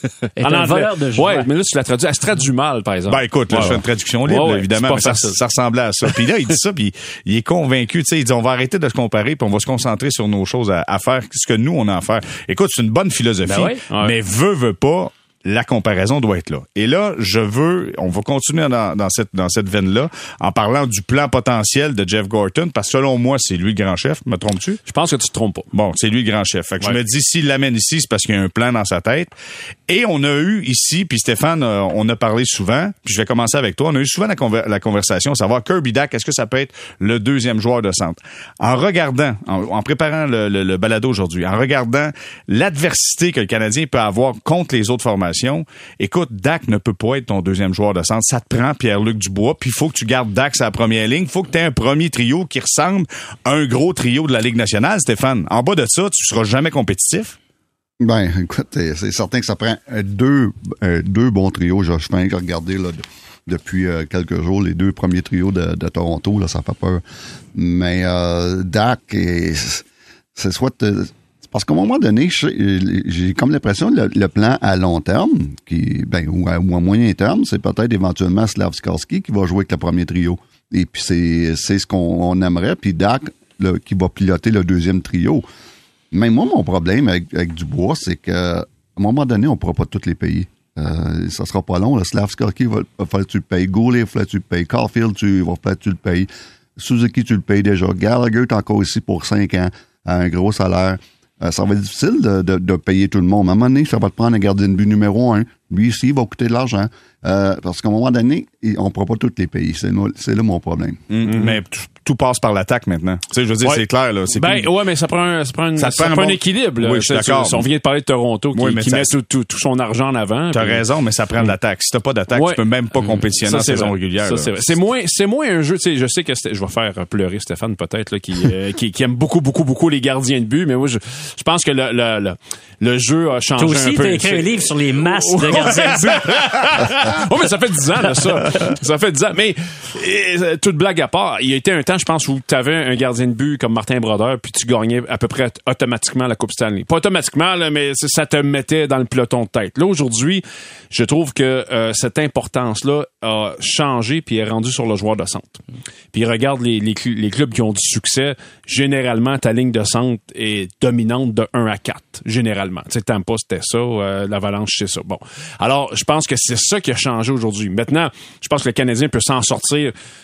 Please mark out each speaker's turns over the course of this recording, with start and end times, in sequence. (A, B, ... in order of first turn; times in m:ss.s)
0:00.4-0:01.5 A
0:00.4-0:05.4 B
0:03.1-0:24.8 C
0:13.4-0:13.8 A
0:13.9-0:14.1 B
0:24.9-0:25.7 B
0:25.7-0:29.3 C
0:29.9-0:57.4 C
0:58.0-1:07.0 D
1:07.5-1:25.4 D
1:26.1-1:51.0 D
1:51.1-1:54.7 C
1:51.2-1:51.6 B
1:54.4-2:00.8 B
1:55.8-1:57.7 C
1:58.5-1:59.1 C
2:00.5-2:04.8 C
2:02.3-2:35.6 B
2:13.6-2:16.3 A
2:15.6-2:16.7 C
2:36.1-2:49.9 B